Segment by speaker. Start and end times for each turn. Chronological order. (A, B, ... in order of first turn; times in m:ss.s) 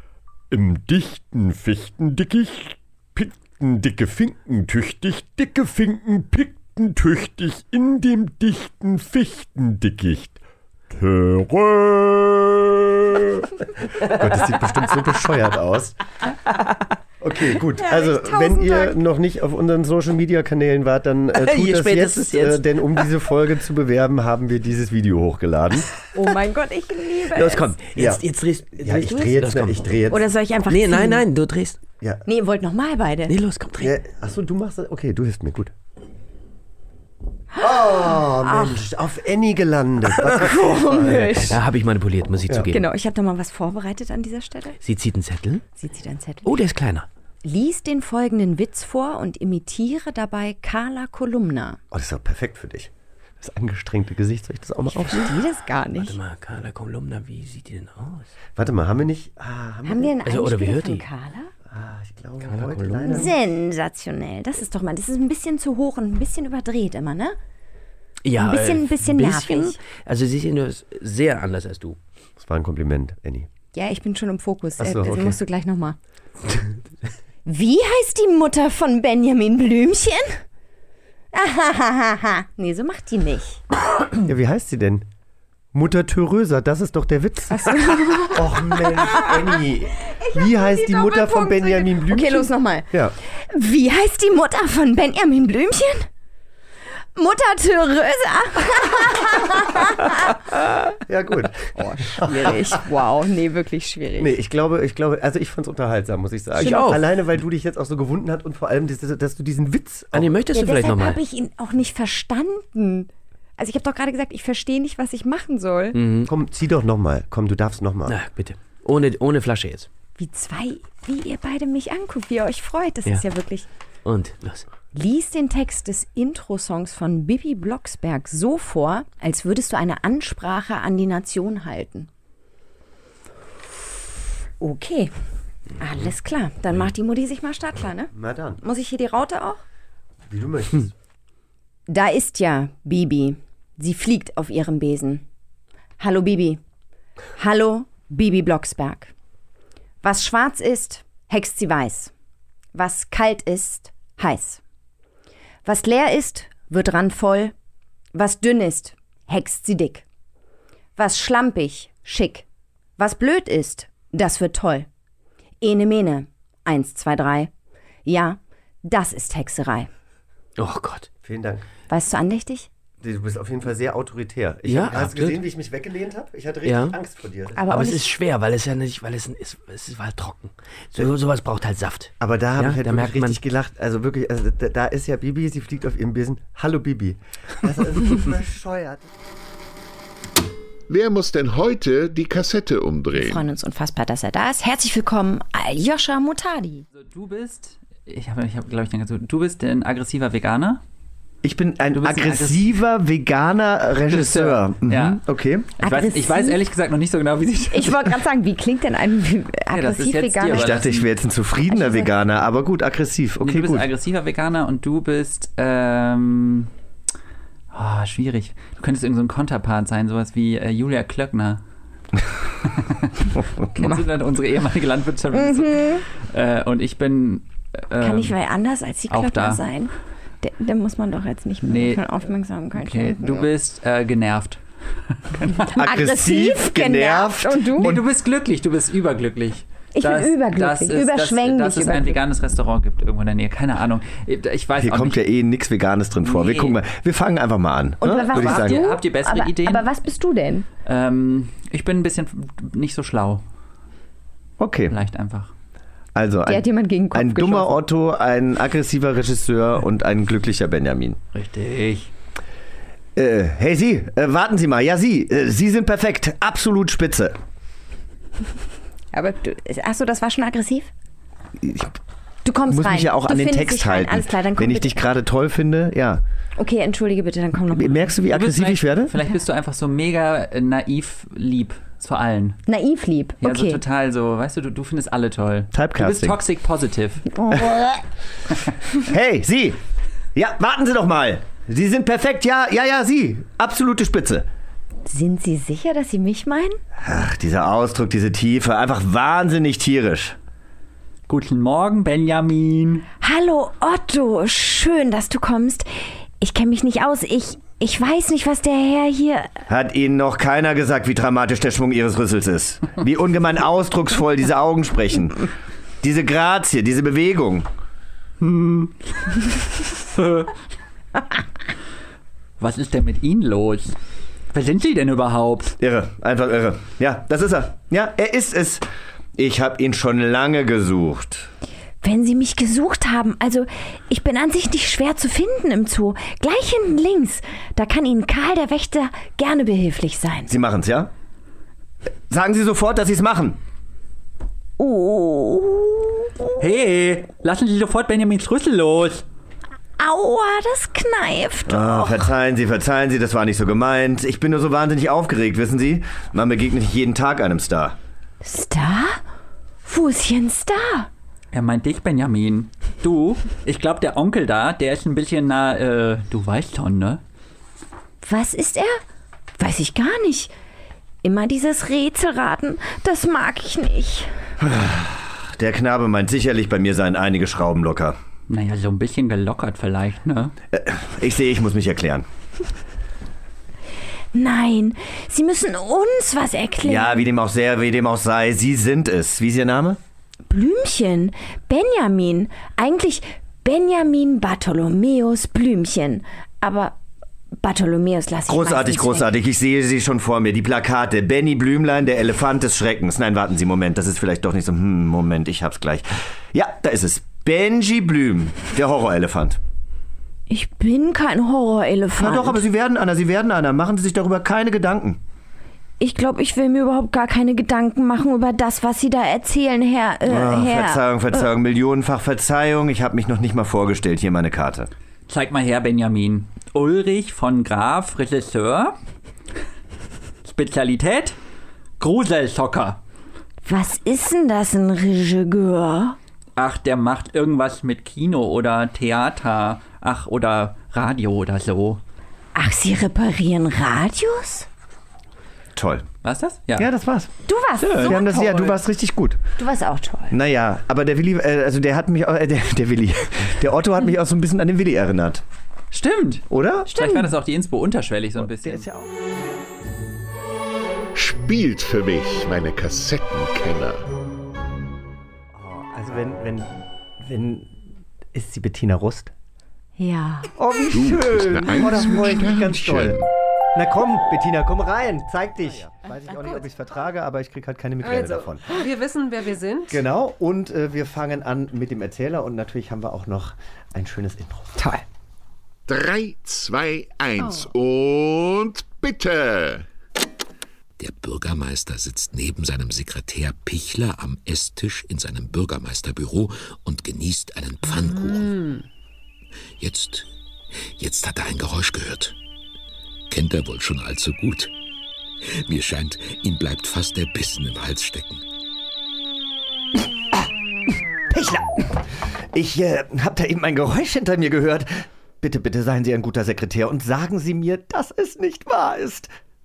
0:00.5-0:10.3 A
0:10.9-0:13.4 A
0:14.0-0:16.0 B
0:17.2-0:25.9 B
0:17.8-0:19.0 C
0:21.3-0:23.1 D
0:26.1-0:27.8 C
0:27.3-0:30.0 D
0:27.9-0:28.2 B
0:28.8-0:30.2 B
0:30.1-0:31.2 C
0:30.7-0:31.8 D
0:32.2-0:33.3 C
0:33.3-0:34.0 D
0:33.8-0:35.7 B
0:37.5-0:38.8 C
0:37.6-0:41.4 B
0:40.0-0:41.6 C
0:41.0-0:42.9 D
0:42.7-0:44.8 C
0:44.8-0:45.6 D
0:45.8-0:46.5 C
0:46.4-0:47.0 D
0:47.4-0:51.8 C
0:51.9-0:52.9 B
0:53.4-0:55.4 B
0:55.0-0:56.1 C
0:56.0-0:58.3 D
0:58.6-1:00.1 B
0:59.8-1:01.5 C
1:00.2-1:01.0 D
1:01.7-1:03.3 B
1:02.4-1:03.3 D
1:03.1-1:07.4 C
1:08.2-1:12.0 D
1:08.4-1:09.8 C
1:12.4-1:13.5 B
1:13.7-1:16.0 C
1:14.8-1:15.4 B
1:17.4-1:20.4 C
1:21.3-1:23.6 C
1:24.2-1:25.0 B
1:25.7-1:27.8 B
1:27.5-1:29.6 C
1:28.3-1:33.1 B
1:30.1-1:36.1 C
1:37.2-1:40.3 C
1:41.1-1:42.6 B
1:41.8-1:44.4 C
1:44.2-1:50.3 B
1:46.6-1:47.0 D
1:50.1-1:51.2 D
1:50.5-1:56.0 C
1:55.9-1:56.3 D
1:56.3-1:58.2 B
1:58.1-1:59.9 D
2:00.2-2:03.6 C
2:04.0-2:04.6 D
2:04.9-2:12.1 C
2:14.6-2:15.1 C
2:15.8-2:19.6 C
2:18.1-2:18.6 B
2:20.3-2:20.9 B
2:21.9-2:25.2 C
2:26.0-2:26.6 C
2:27.4-2:29.1 C
2:30.0-2:32.1 C
2:32.7-2:34.6 C
2:35.6-2:37.5 C
2:38.1-2:40.0 C
2:41.0-2:42.4 C
2:43.0-2:44.9 C
2:45.6-2:47.5 C
2:48.0-2:49.9 C
2:50.6-2:51.1 D
2:51.2-2:51.6 B
2:51.9-2:52.7 C
2:53.0-2:57.6 B
2:54.6-2:55.4 D
2:56.6-2:56.9 D
2:57.6-2:58.0 C
2:57.6-3:03.4 D
3:02.2-3:09.1 B
3:10.9-3:13.4 E
3:13.1-3:16.8 C
3:16.9-3:20.8 F
3:21.4-3:25.7 B
3:21.9-3:22.7 F
3:24.1-3:25.2 F
3:25.8-3:26.6 C
3:25.8-3:28.2 F
3:27.7-3:30.8 C
3:29.7-3:31.1 F
3:30.5-3:33.9 B
3:31.7-3:32.1 C
3:33.4-3:36.7 F
3:37.7-3:41.6 F
3:42.6-3:48.4 F
3:45.3-3:46.0 C
3:48.0-3:53.5 C
3:49.1-3:49.6 F
3:51.6-3:52.2 F
3:52.7-3:55.8 F
3:55.7-3:58.0 B
3:55.8-3:58.0 C
3:57.8-4:05.2 F
3:59.9-4:02.2 C
4:04.8-4:08.8 B
4:06.2-4:06.8 F
4:08.0-4:10.6 C
4:08.2-4:09.9 F
4:10.8-4:13.4 F
4:14.6-4:14.9 B
4:14.9-4:15.5 F
4:16.1-4:21.2 B
4:16.4-4:17.8 C
4:21.3-4:22.1 F
4:23.2-4:27.4 B
4:29.1-4:30.9 C
4:31.6-4:31.9 B
4:32.4-4:35.0 C
4:32.7-4:36.2 B
4:36.6-4:38.1 C
4:37.7-4:39.1 B
4:38.2-4:42.6 F
4:42.7-4:43.8 C
4:43.4-4:47.2 F
4:45.7-4:46.4 B
4:47.4-4:48.0 C
4:49.0-4:49.8 B
4:50.3-4:54.4 B
4:55.0-4:56.8 C
4:57.0-5:00.4 B
5:01.3-5:03.0 F
5:03.2-5:09.6 C
5:09.7-5:15.5 B
5:16.0-5:17.7 B
5:18.4-5:20.5 F
5:22.6-5:23.9 F
5:24.5-5:25.8 F
5:25.8-5:28.8 B
5:29.4-5:31.5 B
5:32.0-5:40.5 C
5:40.5-5:41.1 B
5:42.3-5:43.6 B
5:44.8-5:46.3 C
5:46.6-5:49.2 F
5:50.0-5:52.3 C
5:51.7-5:58.0 B
5:58.4-5:59.2 C
5:59.8-6:01.1 C
6:01.5-6:07.2 F
6:08.2-6:09.0 C
6:09.6-6:10.5 C
6:11.2-6:14.3 C
6:14.6-6:18.2 B
6:18.5-6:20.5 F
6:20.7-6:22.2 B
6:24.3-6:27.2 C
6:26.8-6:30.0 B
6:30.5-6:37.0 C
6:37.6-6:39.3 C
6:38.5-6:49.6 B
6:50.5-6:52.6 C
6:52.2-6:55.2 B
6:56.0-7:01.4 C
7:00.2-7:04.9 B
7:05.3-7:09.0 F
7:10.4-7:11.4 F
7:12.0-7:13.0 F
7:13.6-7:16.2 C
7:16.6-7:22.0 F
7:22.5-7:24.7 C
7:25.7-7:26.1 B
7:26.2-7:26.9 F
7:26.8-7:27.3 B
7:27.4-7:28.8 C
7:27.8-7:28.2 F
7:28.0-7:29.4 B
7:29.6-7:30.4 C
7:30.3-7:35.4 B
7:35.9-7:38.9 F
7:36.5-7:36.9 B
7:36.9-7:37.3 C
7:38.4-7:39.1 B
7:41.1-7:44.0 E
7:45.5-7:47.7 B
7:48.3-7:49.3 B
7:50.0-7:50.6 C
7:50.6-7:53.2 B
7:50.9-7:53.3 E
7:53.7-7:58.8 B
7:58.0-8:00.0 G
7:59.9-8:04.8 B
8:05.9-8:09.9 E
8:07.4-8:07.7 G
8:11.0-8:18.6 H
8:18.1-8:18.8 G
8:19.8-8:20.3 H
8:21.0-8:22.3 H
8:23.3-8:24.7 H
8:25.7-8:28.4 H
8:31.3-8:39.3 B